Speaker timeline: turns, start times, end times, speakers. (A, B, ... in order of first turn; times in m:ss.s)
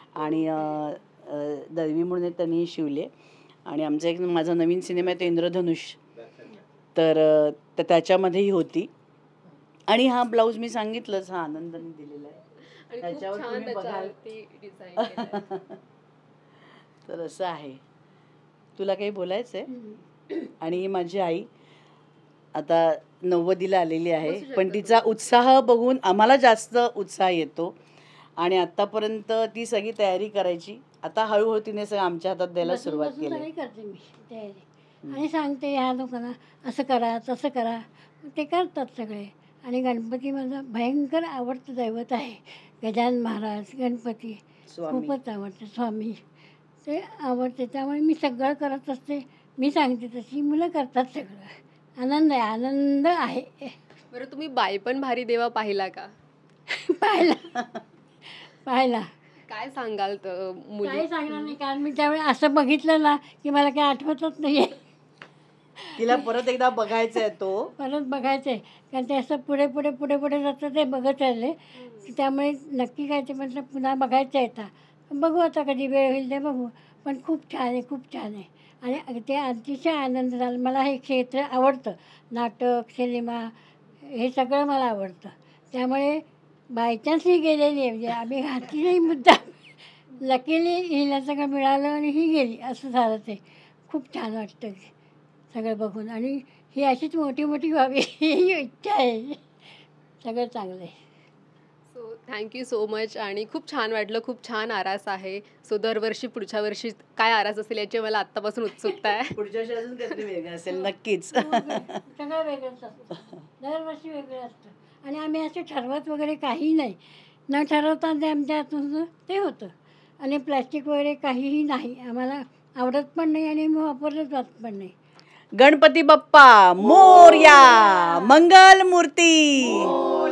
0:00.1-0:03.1 A
0:03.7-0:06.0 A
0:07.0-0:08.9 A
0:09.9-0:12.4 A
0:12.9-0:15.4 B
0:13.0-0:14.1 A
0:15.0-0:15.8 A
0:17.1-0:17.8 A
0:18.8-0:19.7 A
0:20.3-0:21.5 A
0:22.5-0:27.7 A
0:24.2-0:25.1 B
0:28.4-0:33.4 A
0:32.6-0:46.2 C
0:44.7-0:45.2 A
0:46.8-0:53.8 C
0:54.1-0:56.1 B
0:56.7-0:57.6 C
0:58.6-0:59.1 C
0:59.5-1:01.6 B
1:00.8-1:04.8 C
1:05.9-1:06.3 C
1:06.0-1:07.7 A
1:07.8-1:23.5 C
1:24.1-1:34.9 C
1:35.5-1:39.4 C
1:40.2-1:41.0 C
1:41.9-1:49.4 B
1:49.3-1:51.9 A
1:50.7-2:04.9 C
2:05.6-2:10.0 A